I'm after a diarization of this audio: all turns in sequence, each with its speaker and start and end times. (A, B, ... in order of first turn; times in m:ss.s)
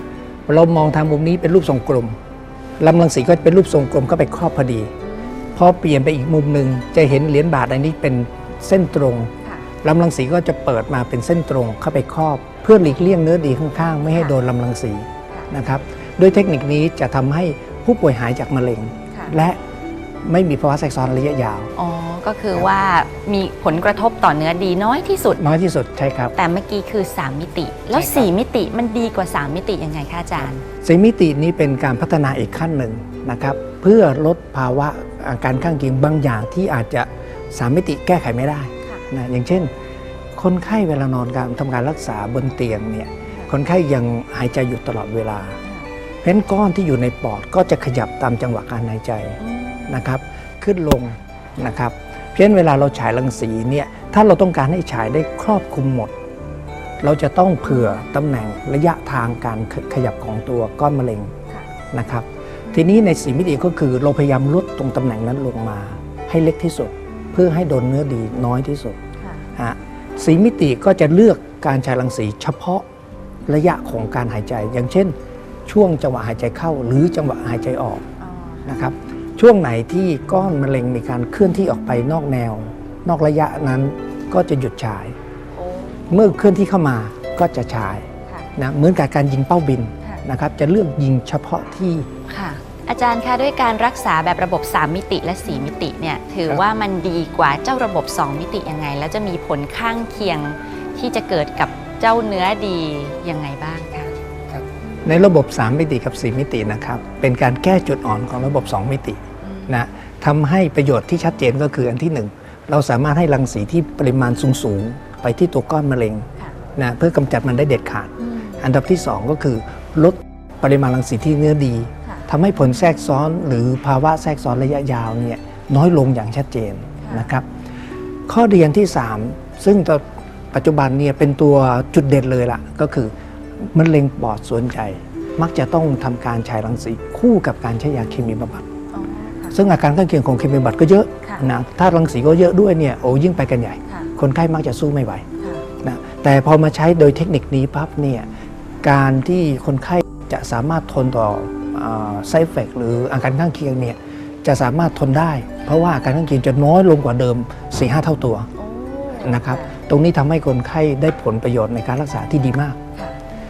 0:00.5-0:02.2 A
0:02.8-0:04.9 A
0:05.1-0:05.6 B
0:05.6-0:09.3 A
0:09.8-0:19.6 A
0:20.2-0:21.7 A
0:21.8-0:25.4 B
0:25.4-0:26.3 A
0:26.4-0:30.6 B
0:27.9-0:28.3 A
0:30.8-0:39.7 A
0:40.4-0:45.6 A
0:46.2-0:56.1 A
0:49.4-0:50.0 B
0:57.0-1:01.3 A
1:01.9-1:09.0 A
1:09.2-1:09.5 B
1:09.6-1:12.8 A
1:13.5-1:15.2 A
1:15.7-1:18.1 A
1:18.2-1:18.8 B
1:18.7-1:25.2 A
1:25.6-1:26.3 B
1:26.1-1:32.1 A
1:32.3-1:44.1 B
1:44.5-2:07.5 A
1:49.4-1:49.8 B
1:58.2-1:58.6 B
2:07.0-2:07.3 B
2:08.3-2:18.7 A
2:18.9-2:19.6 B
2:19.5-2:25.2 A
2:25.4-2:25.7 B
2:25.8-2:28.3 A
2:28.8-2:38.5 A
2:38.6-2:39.7 B
2:39.2-2:42.8 A